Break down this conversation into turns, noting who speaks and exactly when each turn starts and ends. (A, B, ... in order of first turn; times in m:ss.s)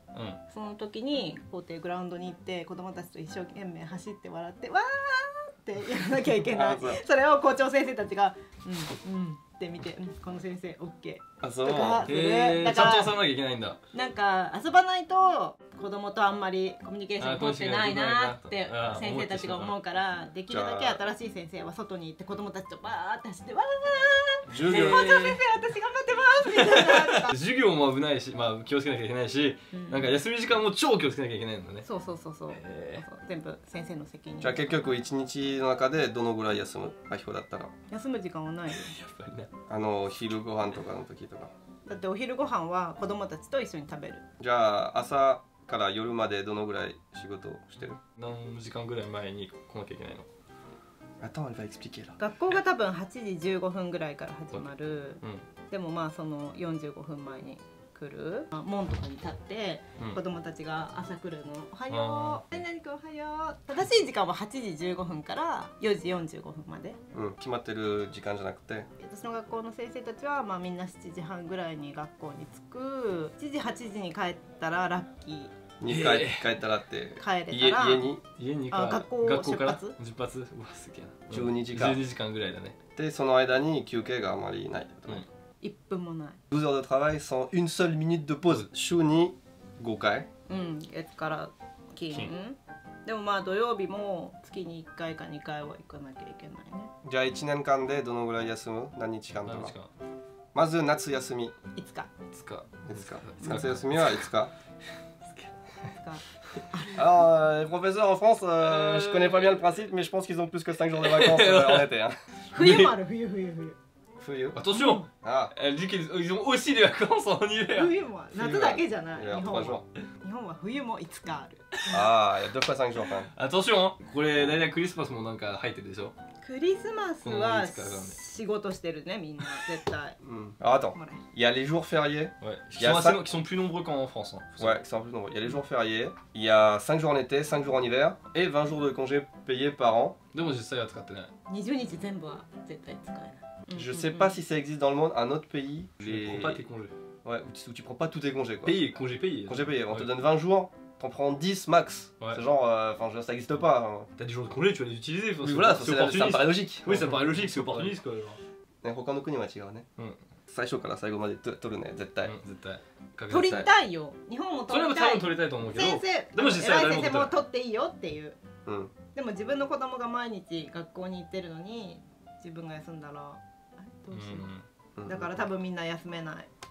0:00.1-0:00.4 A
0:00.5-0:13.2 B
0:06.4-0:07.0 C
0:11.4-0:12.1 C
0:12.0-0:13.8 A
0:13.9-0:27.4 B
0:17.2-0:19.7 A
0:20.5-0:21.0 C
0:24.5-0:25.4 A
0:24.5-0:25.0 C
0:26.5-0:31.8 A
0:29.7-0:30.2 B
0:31.8-0:34.6 B
0:32.5-0:33.0 A
0:34.4-0:37.7 C
0:37.9-0:38.9 B
0:38.7-0:39.5 A
0:39.7-0:41.5 C
0:41.9-0:44.2 B
0:44.4-0:48.0 C
0:48.2-0:50.3 A
0:51.2-0:52.2 C
0:52.2-1:07.0 B
1:01.9-1:02.4 A
1:07.1-1:08.9 C
1:09.0-1:15.6 B
1:15.8-1:18.2 C
1:15.9-1:16.5 A
1:17.2-1:18.1 B
1:18.4-1:22.8 A
1:18.7-1:20.0 B
1:21.3-1:22.0 C
1:23.0-1:25.2 C
1:25.6-1:26.4 B
1:26.5-1:30.3 C
1:30.5-1:36.9 B
1:37.0-1:39.7 C
1:39.4-1:39.9 A
1:40.5-1:41.5 C
1:41.8-1:42.1 B
1:42.3-1:44.2 A
1:42.8-1:44.5 C
1:45.9-1:46.2 B
1:46.7-1:47.0 B
1:46.9-1:52.2 C
1:48.6-1:49.6 A
1:51.0-1:51.9 A
1:52.5-1:52.9 A
1:52.5-1:53.8 B
1:54.2-1:54.6 C
1:54.5-1:58.8 A
1:55.2-1:55.5 C
1:57.7-2:01.6 B
1:58.5-1:59.8 C
2:01.9-2:03.3 C
2:03.3-2:06.1 A
2:06.4-2:10.2 B
2:07.2-2:08.2 A
2:10.2-2:13.2 C
2:11.0-2:11.2 B
2:12.4-2:14.8 A
2:14.6-2:20.2 C
2:20.3-2:21.3 A
2:21.5-2:24.4 B
2:23.7-2:26.6 C
2:26.0-2:26.9 A
2:27.2-2:28.8 C
2:28.6-2:30.1 A
2:29.5-2:34.1 C
2:34.2-2:38.4 A
2:35.4-2:38.0 C
2:38.8-2:39.8 C
2:40.5-2:42.3 C
2:42.2-2:43.6 A
2:43.3-2:48.4 B
2:43.3-2:43.7 C
2:44.7-2:47.3 A
2:48.6-2:48.9 C
2:49.1-2:54.5 B
2:54.1-2:54.6 A
2:55.0-2:55.3 C
2:55.0-2:56.5 B